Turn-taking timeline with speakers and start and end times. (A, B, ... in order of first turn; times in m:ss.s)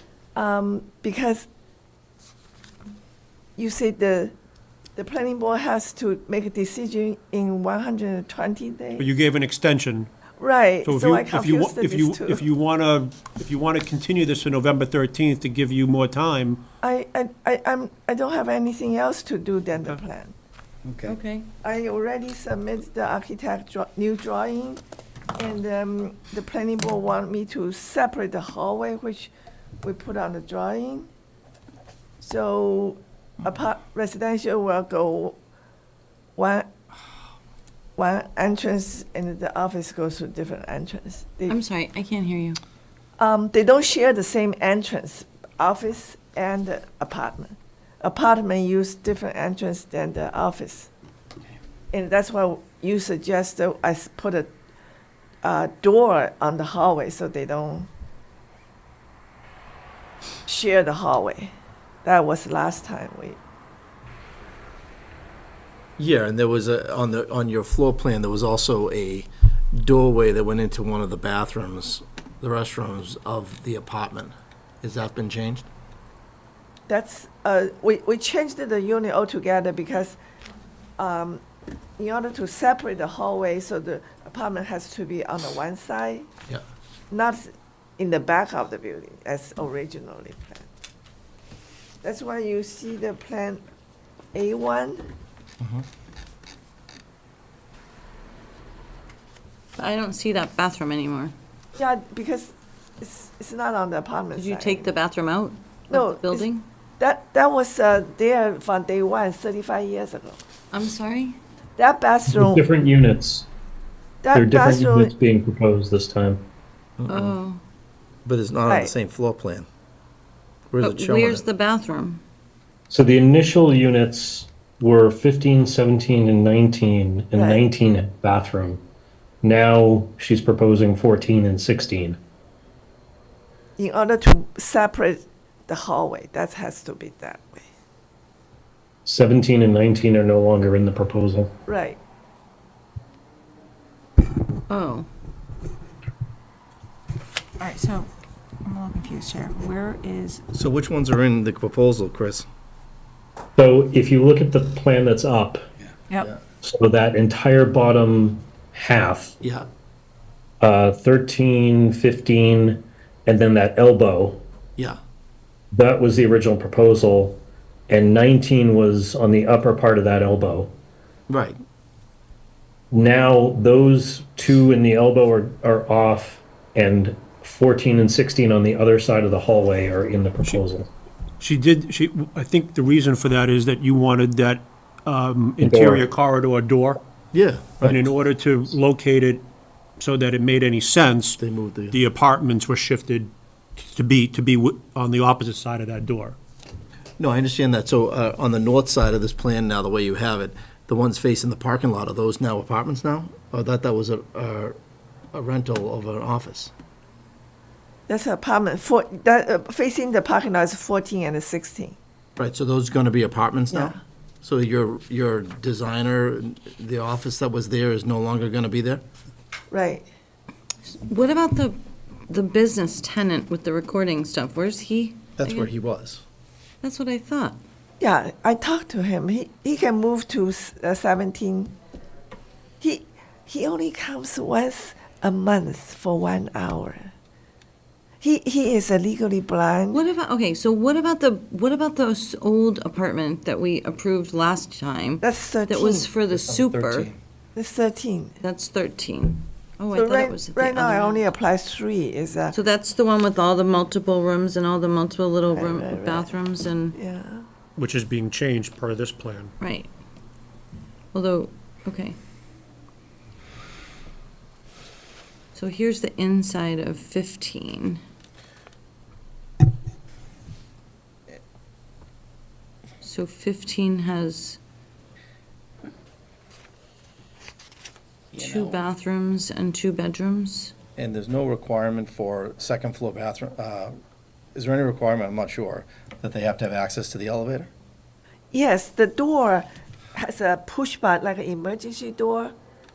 0:00.4-0:01.5 A
0:03.6-0:04.3 A
0:05.0-0:09.1 A
0:09.0-0:10.1 B
0:10.4-0:12.4 A
0:10.8-0:16.6 B
0:16.8-0:20.4 A
0:20.9-0:21.1 C
0:21.0-0:21.5 D
0:21.6-0:24.8 A
0:25.4-0:29.3 A
0:29.8-0:31.1 A
0:32.2-0:35.4 A
0:36.4-0:36.7 A
0:38.0-0:41.6 A
0:41.5-0:42.6 D
0:43.2-0:50.9 A
0:51.9-0:54.5 A
0:55.4-0:57.9 A
1:00.5-1:01.5 A
1:02.0-1:03.4 A
1:06.0-1:15.7 C
1:16.9-1:20.2 A
1:21.0-1:21.4 A
1:22.0-1:26.3 A
1:27.1-1:30.7 A
1:32.0-1:33.6 A
1:34.3-1:35.1 A
1:35.6-1:35.8 C
1:39.8-1:41.3 D
1:41.8-1:44.9 A
1:44.4-1:46.6 D
1:45.9-1:50.4 A
1:50.7-1:51.4 D
1:51.8-1:52.6 A
1:52.3-1:53.5 E
1:54.2-1:55.1 A
1:54.3-1:56.4 E
1:57.0-1:57.4 C
1:57.1-1:57.6 D
1:58.2-1:59.7 C
1:58.7-1:58.9 A
2:00.7-2:01.5 C
2:00.8-2:02.2 D
2:02.9-2:08.8 E
2:07.4-2:07.7 A
2:09.4-2:12.2 E
2:13.8-2:17.6 A
2:19.1-2:21.5 E
2:21.7-2:22.0 A
2:24.7-2:25.1 D
2:27.6-2:28.1 F
2:28.6-2:30.4 F
2:30.5-2:32.5 C
2:33.6-2:35.6 E
2:36.6-2:39.4 E
2:39.4-2:39.7 C
2:40.6-2:44.4 E
2:45.7-2:50.7 E
2:51.3-2:51.6 C
2:52.9-3:00.9 E
3:01.4-3:07.0 B
3:05.6-3:06.1 E
3:07.3-3:08.0 C
3:07.8-3:09.5 B
3:10.0-3:16.4 B
3:11.4-3:12.0 C
3:17.2-3:24.8 C
3:25.3-3:26.7 C
3:28.1-3:32.0 A
3:32.4-3:39.0 C
3:33.7-3:34.0 A
3:39.7-3:40.1 A
3:40.9-3:41.8 D
3:42.3-3:45.7 D
3:45.4-3:46.2 C
3:46.8-3:47.6 D
3:48.0-3:51.7 A
3:52.8-3:57.1 A
3:58.2-4:00.0 A
3:59.9-4:07.1 D
4:05.2-4:06.1 A
4:06.3-4:07.2 C
4:07.6-4:08.4 A
4:08.4-4:11.3 D
4:09.9-4:12.6 A
4:12.5-4:17.0 D
4:15.5-4:16.3 A
4:16.9-4:17.4 A
4:17.8-4:19.5 B
4:19.6-4:19.9 D
4:21.1-4:22.2 D
4:25.5-4:28.0 D
4:33.0-4:34.6 D
4:38.3-4:38.8 C
4:38.3-4:40.7 D
4:41.0-4:43.9 C
4:44.6-4:47.7 C
4:48.5-4:52.5 A